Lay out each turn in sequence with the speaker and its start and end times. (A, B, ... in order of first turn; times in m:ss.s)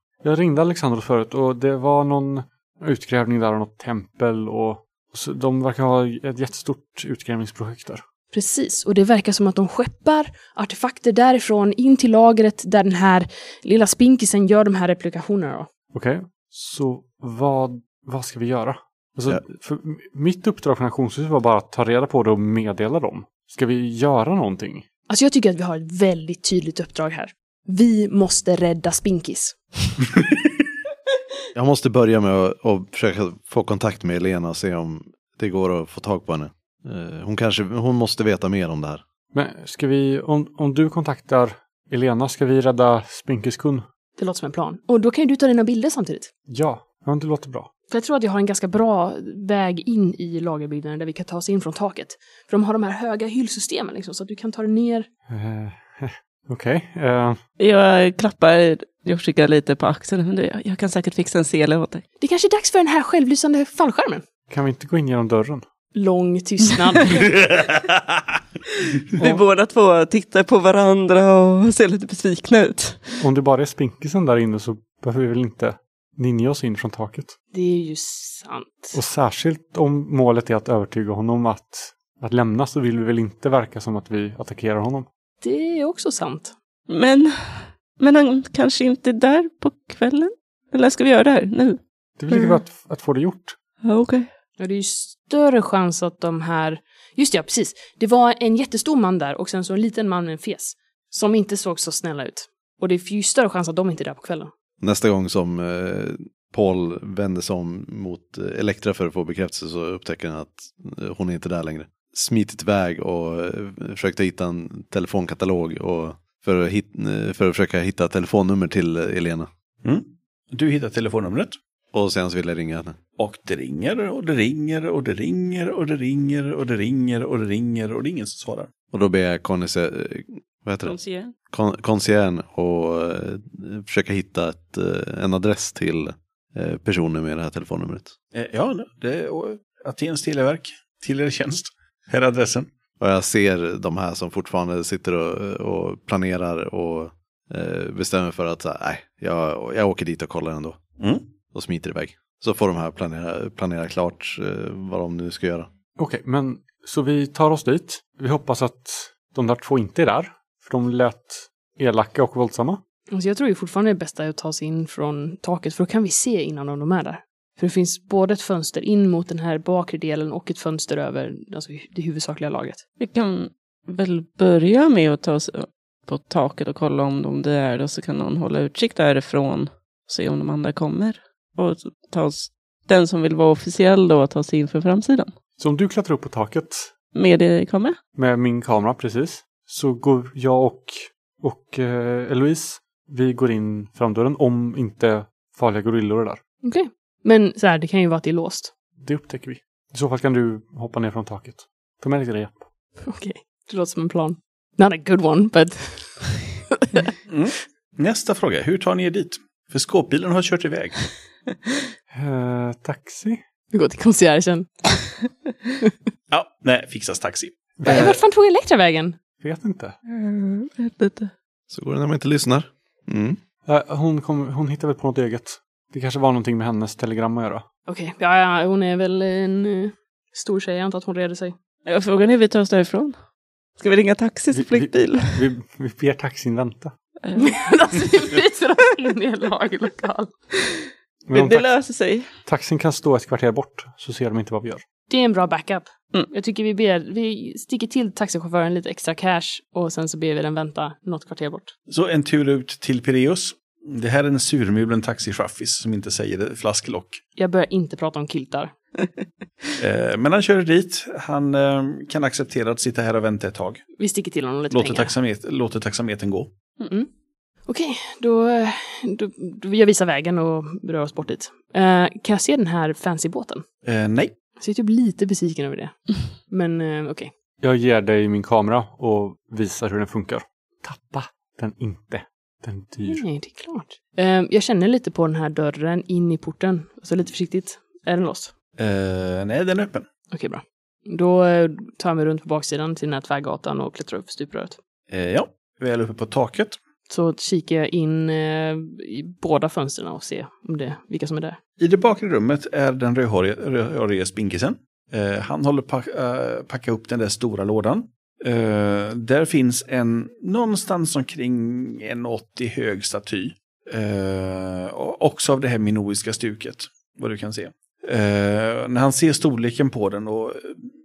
0:00.2-0:08.0 A
0:08.3-0:15.7 B
0:15.9-0:24.8 A
0:25.1-0:29.6 B
0:31.6-0:39.0 C
0:39.3-0:43.8 A
0:44.2-0:46.3 B
0:46.5-0:47.7 A
0:47.9-0:55.1 B
0:55.3-0:57.4 A
0:57.6-1:02.0 D
1:02.2-1:04.2 B
1:04.5-1:05.6 A
1:05.9-1:07.3 B
1:07.4-1:08.0 E
1:08.9-1:13.2 D
1:13.2-1:17.4 A
1:17.5-1:19.0 B
1:18.9-1:25.1 A
1:25.4-1:26.5 B
1:26.9-1:31.8 D
1:32.2-1:33.6 A
1:32.3-1:32.6 D
1:33.8-1:34.3 D
1:34.6-1:44.5 B
1:44.8-1:59.5 C
1:59.8-2:01.6 E
2:01.9-2:03.0 C
2:03.2-2:08.7 E
2:08.9-2:11.0 C
2:10.8-2:11.3 D
2:11.5-2:18.1 C
2:18.3-2:22.7 E
2:23.0-2:30.8 C
2:31.5-2:35.7 C
2:36.0-2:42.8 A
2:43.1-2:52.8 B
2:53.0-3:05.3 D
3:05.6-3:06.9 A
3:07.1-3:08.0 D
3:08.2-3:16.4 A
3:16.6-3:18.7 B
3:19.0-3:22.7 A
3:23.0-3:27.1 B
3:27.3-3:31.1 E
3:32.1-3:33.4 A
3:33.7-3:35.0 B
3:36.3-3:38.2 E
3:37.8-3:38.2 A
3:37.8-3:39.2 B
3:39.4-3:39.9 A
3:40.1-3:41.3 D
3:41.7-3:43.4 C
3:43.7-3:47.6 A
3:47.9-3:51.6 B
3:51.9-3:53.2 D
3:53.8-3:55.4 D
3:54.5-3:56.9 A
3:57.4-4:00.3 B
4:00.6-4:02.3 D
4:01.3-4:01.7 A
4:02.4-4:04.8 A
4:05.1-4:11.7 B
4:11.9-4:17.2 E
4:17.4-4:18.7 B
4:19.8-4:23.8 E
4:24.0-4:25.1 B
4:24.7-4:26.5 E
4:27.7-4:33.6 B
4:33.8-4:34.4 E
4:34.6-4:36.0 B
4:36.5-4:37.3 B
4:37.6-4:43.2 A
4:43.0-4:48.5 B
4:48.8-4:50.1 E
4:50.3-4:54.8 B
4:55.1-4:56.8 E
4:57.1-5:01.6 B
5:01.8-5:20.8 E